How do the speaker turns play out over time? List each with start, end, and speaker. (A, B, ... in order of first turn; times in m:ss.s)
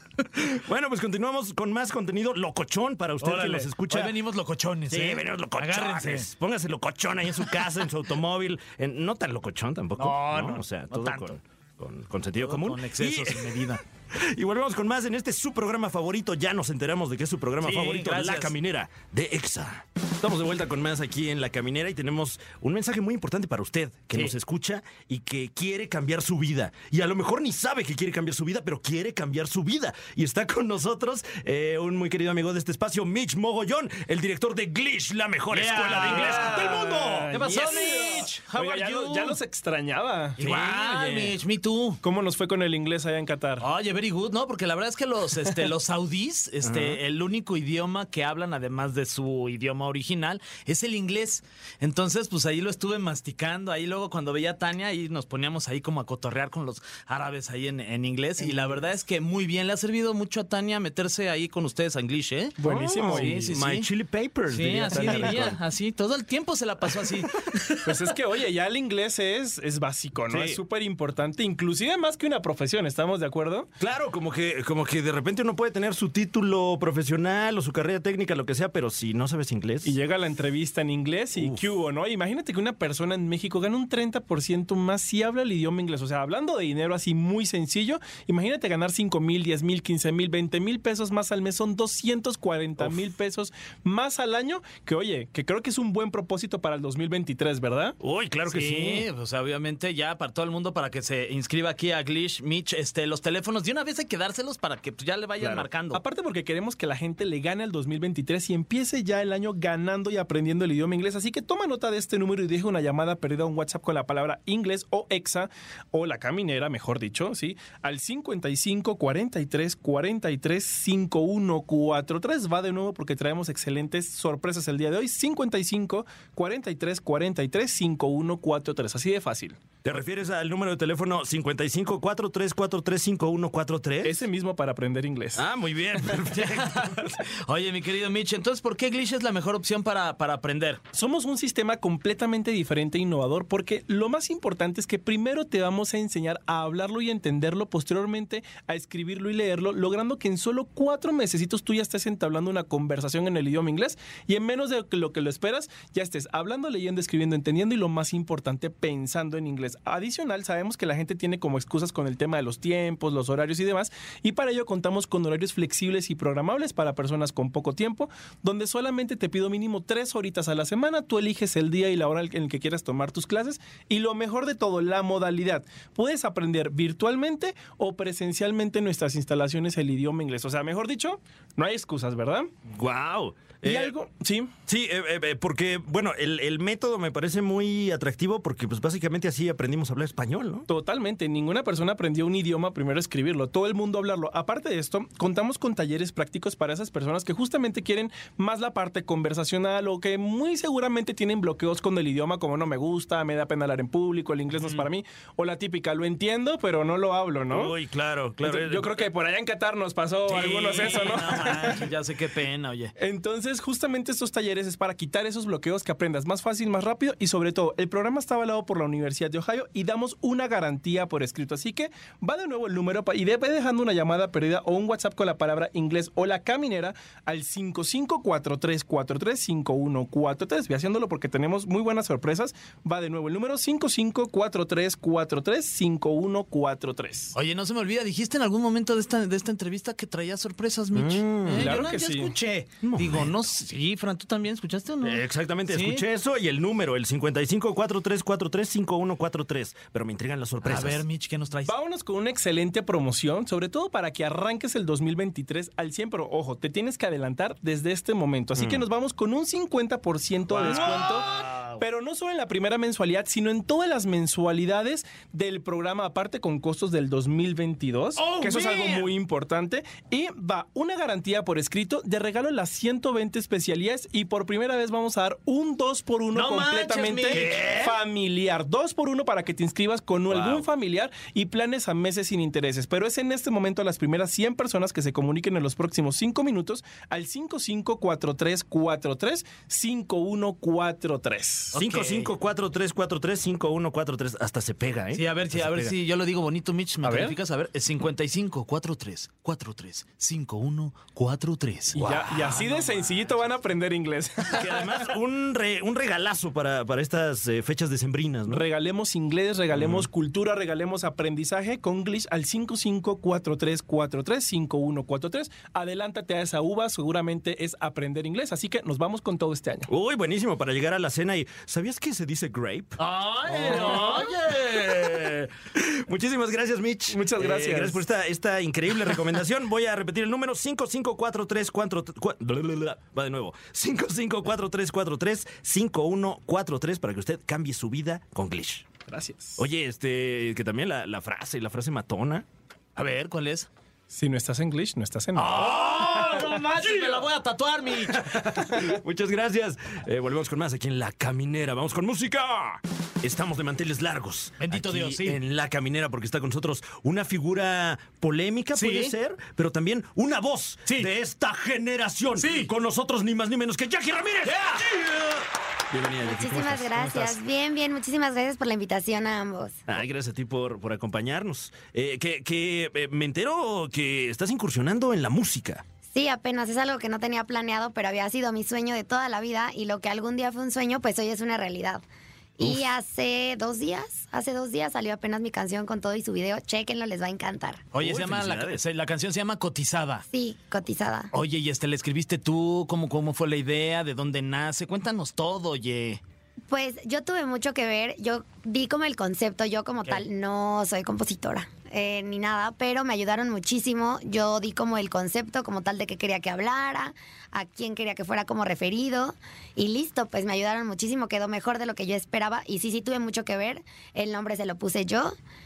0:00.3-0:04.1 A
0:03.2-0:06.3 B
0:04.9-0:37.7 A
0:10.0-0:11.4 B
0:12.4-0:13.8 B
0:17.6-0:18.5 B
0:35.5-0:36.8 B
0:35.9-0:40.4 C
0:37.3-0:39.4 B
0:40.4-0:41.3 A
0:40.4-0:42.0 B
0:42.0-0:43.6 C
0:43.6-1:03.9 B
0:46.6-0:47.0 A
1:02.6-1:03.6 C
1:02.7-1:05.6 A
1:04.5-1:08.0 B
1:04.9-1:05.5 C
1:07.8-1:13.7 C
1:10.3-1:10.6 A
1:13.8-1:20.0 A
1:19.8-1:38.0 C
1:21.3-1:21.7 A
1:38.0-1:39.1 A
1:38.5-1:46.0 B
1:45.4-1:45.6 A
1:45.9-2:09.6 C
2:09.8-2:14.2 A
2:14.0-2:15.4 C
2:15.4-2:17.2 A
2:16.4-2:20.8 B
2:20.9-3:02.5 C
3:02.7-3:03.9 A
3:03.6-3:04.5 C
3:04.7-3:10.7 A
3:10.7-3:27.7 C
3:24.6-3:24.9 B
3:27.5-3:29.1 A
3:28.4-3:31.8 C
3:30.2-3:32.9 B
3:33.0-3:57.3 C
3:57.3-4:06.0 B
4:00.9-4:01.9 A
4:01.5-4:02.3 C
4:02.8-4:03.3 A
4:05.0-4:11.0 A
4:10.6-4:11.7 B
4:11.7-4:51.7 C
4:18.6-4:18.8 A
4:20.5-4:21.2 A
4:20.6-4:21.8 B
4:28.2-4:29.1 B
4:36.3-4:37.9 B
4:37.3-4:38.0 A
4:40.3-4:40.7 A
4:51.7-4:52.3 B
4:51.7-4:55.9 A
4:55.1-5:02.0 B
4:57.0-4:57.3 C
5:01.9-5:05.1 C
5:01.9-5:02.9 A
5:04.5-5:08.6 A
5:08.5-5:19.9 C
5:09.7-5:10.1 A
5:19.9-5:38.9 A
5:23.0-5:25.4 B
5:23.7-5:24.0 C
5:27.1-5:28.0 C
5:39.0-5:39.6 C
5:39.6-5:42.4 A
5:43.0-5:43.7 B
5:44.1-5:45.9 C
5:45.3-5:48.6 B
5:45.9-5:46.9 A
5:48.1-6:07.4 A
5:54.6-5:55.4 B
5:58.7-5:59.1 B
6:02.4-6:02.7 B
6:04.5-6:04.8 B
6:06.2-6:09.8 D
6:09.9-6:15.8 A
6:16.1-6:22.0 D
6:22.6-6:27.8 D
6:27.9-6:30.2 B
6:28.0-6:28.8 A
6:30.3-6:31.3 D
6:31.3-6:36.2 B
6:36.7-6:55.4 D